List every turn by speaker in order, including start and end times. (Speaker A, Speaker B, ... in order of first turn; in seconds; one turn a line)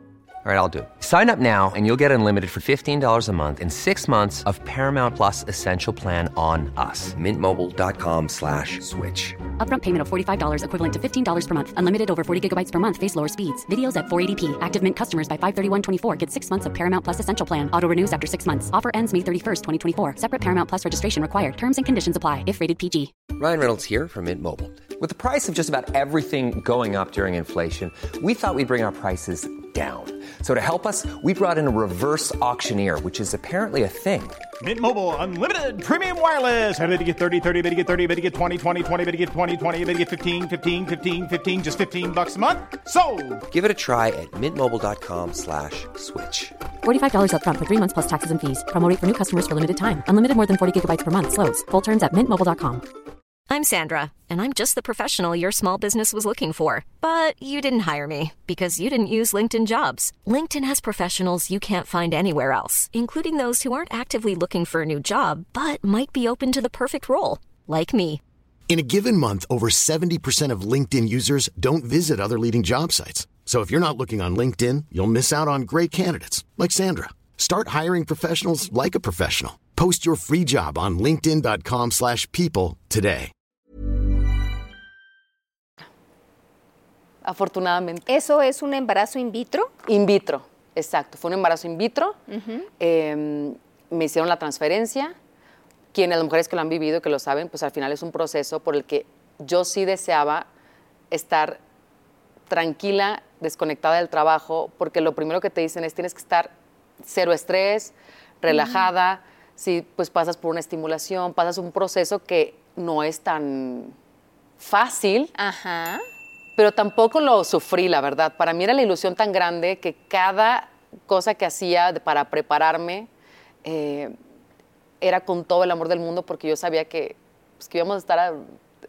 Speaker A: 0.4-9.5
Speaker B: 9.6-23.1
Speaker A: 23.3-34.4
Speaker C: 34.6-43.4
Speaker A: 43.5-46.5
Speaker B: 46.8-52.9
Speaker D: 53.5-68.2
Speaker E: 68.7-83.3
Speaker F: 87.2-88.1
Speaker G: 88.1-89.7
Speaker F: 89.8-92.2
Speaker G: 92.3-92.7
Speaker F: 92.8-95.2
Speaker F: 95.9-100.5
Speaker F: 101.1-101.6
Speaker F: 102.5-114.0
Speaker G: 108.5-108.9
Speaker F: 114.6-115.3
Speaker G: 115.4-116.0
Speaker F: 116.5-123.1
Speaker F: 123.6-124.1
Speaker F: 125.0-128.4